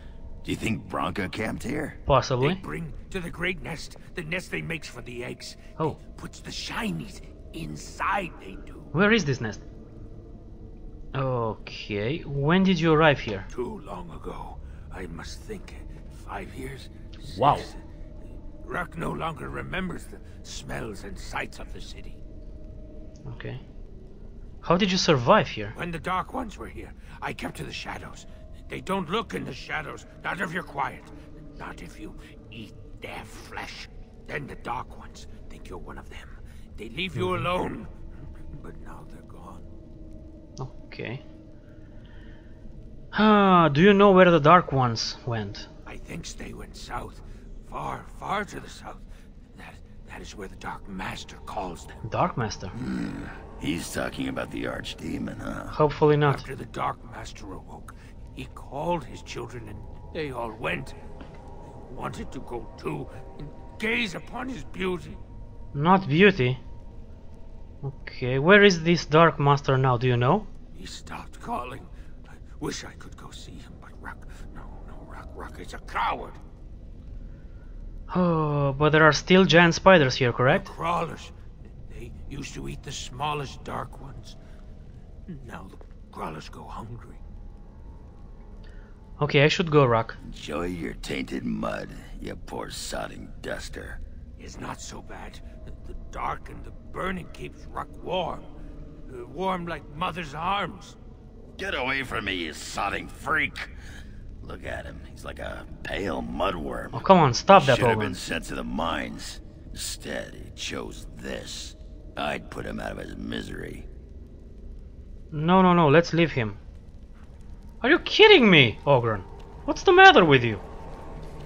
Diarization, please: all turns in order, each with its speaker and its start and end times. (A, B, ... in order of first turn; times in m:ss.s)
0:00.4-0:02.0 A
0:02.1-0:02.6 B
0:02.4-0:08.9 C
0:08.9-0:09.6 B
0:11.1-0:13.5 B
0:13.5-0:17.8 C
0:17.2-0:17.7 B
0:18.6-0:22.2 C
0:23.2-0:23.6 B
0:24.6-0:25.7 B
0:25.7-0:37.9 C
0:38.5-0:39.7 C
0:40.6-0:41.2 B
0:43.1-0:45.7 B
0:45.8-0:49.0 C
0:49.5-0:52.0 C
0:52.0-0:52.7 B
0:52.7-0:55.8 A
0:55.7-0:56.4 B
0:56.2-1:00.9 C
1:01.8-1:05.2 C
1:05.7-1:06.6 B
1:07.8-1:10.5 B
1:10.7-1:11.9 C
1:12.6-1:16.4 C
1:18.1-1:20.7 B
1:20.5-1:21.3 C
1:21.9-1:24.4 C
1:25.3-1:27.2 C
1:29.2-1:30.2 B
1:30.2-1:34.0 A
1:34.4-1:38.4 C
1:39.1-1:41.0 C
1:41.6-1:43.7 A
1:44.4-1:53.9 A
1:46.9-1:48.2 B
1:55.3-1:56.6 B
1:57.8-2:00.6 B